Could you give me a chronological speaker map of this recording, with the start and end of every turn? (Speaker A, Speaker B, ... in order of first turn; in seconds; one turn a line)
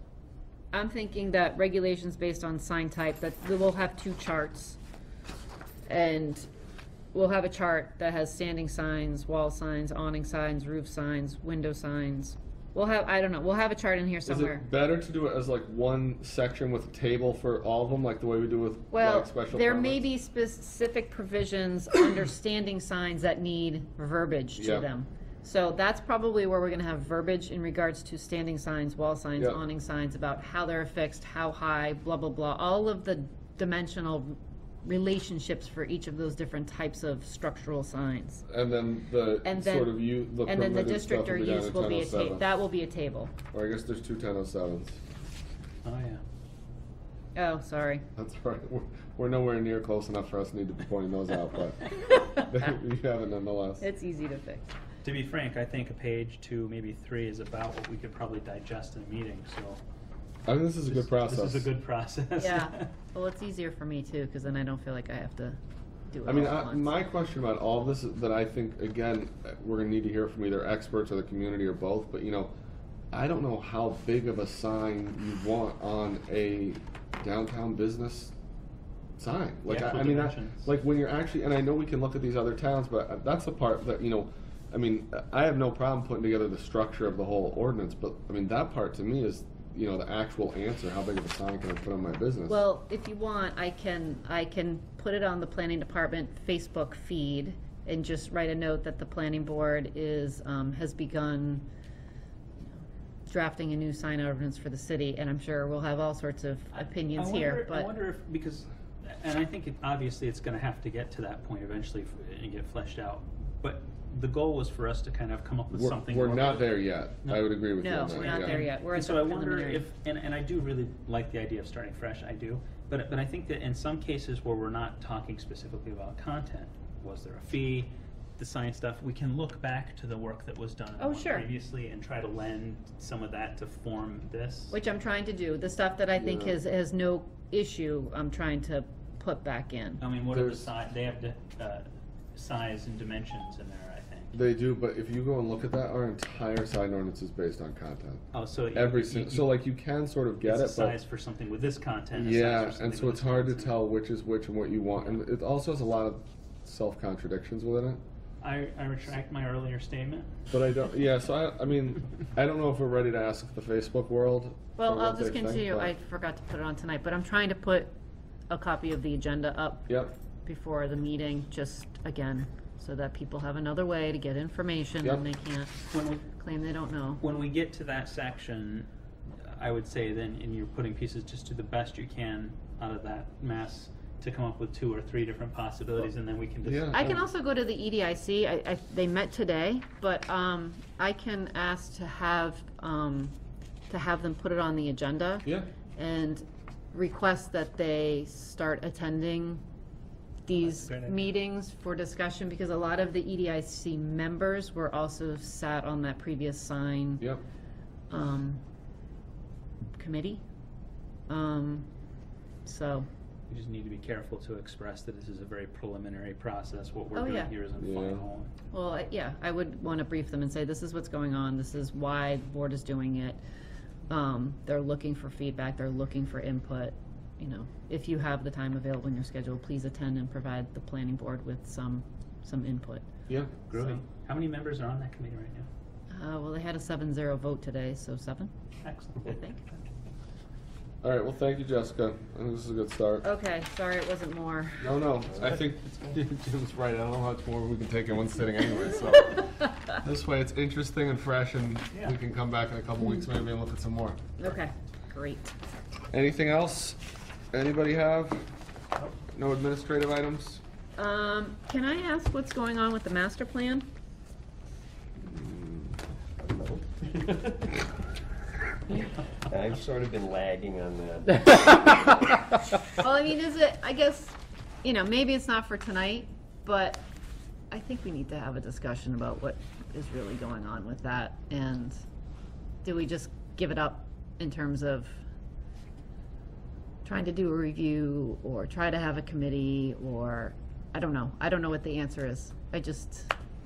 Speaker A: 0.7-4.8
Speaker A: 5.9-6.5
Speaker A: 7.1-14.6
Speaker B: 14.3-20.1
Speaker A: 18.9-38.5
Speaker B: 24.6-24.9
Speaker B: 38.5-42.5
Speaker A: 39.4-43.3
Speaker B: 43.5-45.0
Speaker C: 45.9-46.2
Speaker A: 47.4-48.0
Speaker B: 48.2-53.9
Speaker A: 53.8-54.7
Speaker C: 55.0-59.8
Speaker B: 60.5-61.7
Speaker C: 60.9-62.9
Speaker A: 62.4-66.9
Speaker B: 66.2-72.5
Speaker B: 73.1-78.3
Speaker B: 79.2-92.6
Speaker C: 79.7-80.7
Speaker A: 92.5-101.7
Speaker A: 103.3-107.9
Speaker C: 107.1-134.8
Speaker B: 115.7-118.7
Speaker A: 117.8-119.9
Speaker A: 131.0-131.5
Speaker A: 134.7-140.0
Speaker B: 136.2-136.6
Speaker C: 140.0-144.4
Speaker B: 140.3-140.7
Speaker B: 144.3-150.9
Speaker C: 148.3-149.5
Speaker C: 150.4-153.8
Speaker B: 152.1-158.0
Speaker C: 158.4-160.3
Speaker B: 160.5-165.9
Speaker A: 164.8-167.9
Speaker A: 168.5-169.9
Speaker B: 169.9-170.1
Speaker A: 170.4-175.7
Speaker C: 175.9-176.2
Speaker A: 176.3-177.2
Speaker C: 177.2-187.0
Speaker B: 186.6-187.3
Speaker A: 186.9-193.4
Speaker A: 193.9-199.6
Speaker A: 200.5-207.2
Speaker C: 200.6-201.3
Speaker A: 208.1-208.6
Speaker A: 210.0-210.4
Speaker A: 211.3-211.9
Speaker A: 212.7-213.1
Speaker C: 213.5-218.5
Speaker A: 217.1-217.5
Speaker B: 217.8-218.2
Speaker A: 218.7-223.4
Speaker A: 224.1-233.1
Speaker B: 233.3-233.6
Speaker C: 233.7-235.7
Speaker A: 236.1-238.5
Speaker C: 238.8-239.4
Speaker A: 239.2-239.7
Speaker B: 241.0-243.3
Speaker A: 243.2-245.0
Speaker B: 244.8-254.4
Speaker A: 254.4-255.5
Speaker B: 256.1-257.0
Speaker B: 257.5-258.5
Speaker B: 259.3-260.6
Speaker A: 261.0-263.9
Speaker D: 265.4-265.8
Speaker D: 266.4-267.8
Speaker D: 268.9-272.2
Speaker A: 272.9-277.0
Speaker A: 277.7-282.0
Speaker A: 282.8-285.2
Speaker A: 287.1-293.3